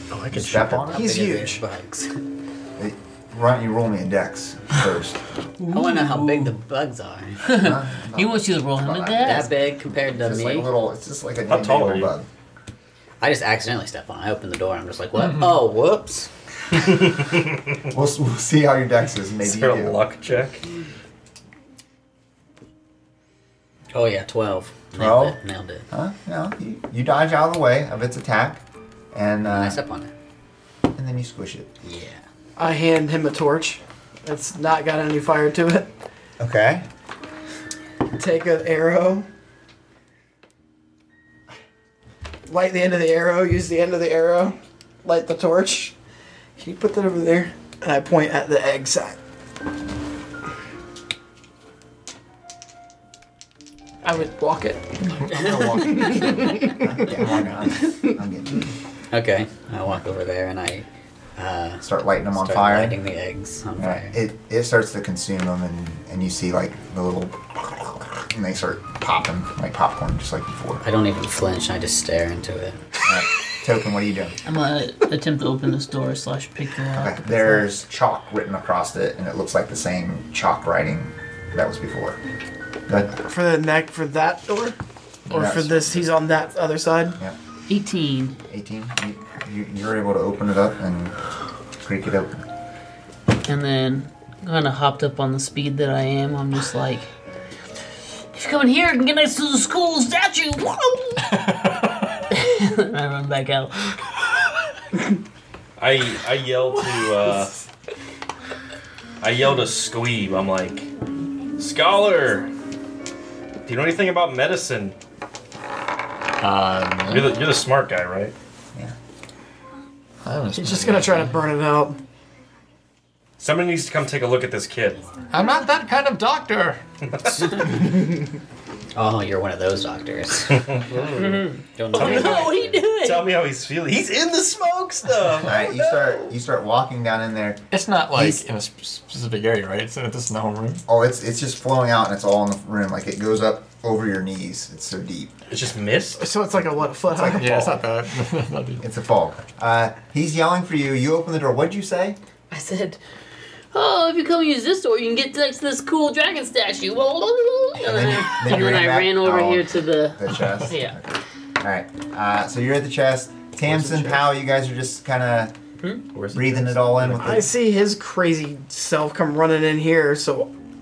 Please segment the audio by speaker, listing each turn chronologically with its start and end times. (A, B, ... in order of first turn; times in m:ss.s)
0:00.1-0:01.0 A
0:00.3-0:01.0 B
0:00.9-0:02.2 C
0:00.9-0:01.6 D
0:02.8-0:05.2 B
0:05.6-0:06.5 D
0:05.7-0:07.5 C
0:07.4-0:09.5 E
0:07.5-0:12.3 B
0:09.2-0:10.7 C
0:11.5-0:12.1 A
0:13.2-0:16.3 C
0:16.9-0:17.6 A
0:17.9-0:20.0 B
0:19.4-0:20.6 A
0:23.9-0:25.9 C
0:25.0-0:25.4 B
0:25.9-0:29.8 B
0:29.4-0:30.1 C
0:31.0-0:31.7 B
0:31.8-0:32.2 C
0:32.6-0:35.9 D
0:36.4-0:36.9 B
0:38.2-0:39.3 D
0:42.5-0:46.0 D
0:46.6-0:49.2 D
0:54.0-0:57.1 D
0:55.2-0:58.6 B
0:57.8-0:58.1 D
0:59.1-1:04.2 C
1:01.8-1:03.0 B
1:03.8-1:10.8 B
1:10.8-1:12.9 C
1:13.0-1:14.4 B
1:14.4-1:17.7 E
1:17.0-1:22.2 B
1:22.9-1:23.2 B
1:23.2-1:24.8 D
1:25.3-1:25.6 F
1:25.3-1:26.1 B
1:25.3-1:27.2 D
1:27.7-1:28.4 E
1:28.5-1:31.2 B
1:31.8-1:32.5 B
1:33.5-1:37.1 E
1:38.3-1:41.4 E
1:41.5-1:41.9 F
1:42.3-1:44.0 E
1:45.8-1:47.6 A
1:49.2-1:50.9 A
1:51.6-1:52.5 A
1:53.7-1:55.0 A
1:56.4-1:57.4 F
1:57.1-1:58.3 A
2:00.2-2:01.4 F
2:00.6-2:02.0 D
2:03.4-2:05.1 A
2:05.3-2:06.8 F
2:07.0-2:07.7 A
2:07.4-2:08.2 C
2:09.0-2:12.9 C
2:10.5-2:15.7 A
2:11.0-2:13.3 E
2:15.4-2:18.4 B
2:17.7-2:20.8 F
2:20.9-2:25.3 B
2:25.5-2:26.2 A
2:26.2-2:27.8 D
2:27.0-2:27.8 B
2:27.4-2:28.8 F
2:28.8-2:32.2 B
2:32.5-2:33.0 E
2:33.7-2:41.0 E
2:37.8-2:45.5 B
2:43.6-2:44.2 A
2:46.1-2:47.5 A
2:46.3-2:47.5 B
2:47.2-2:50.5 D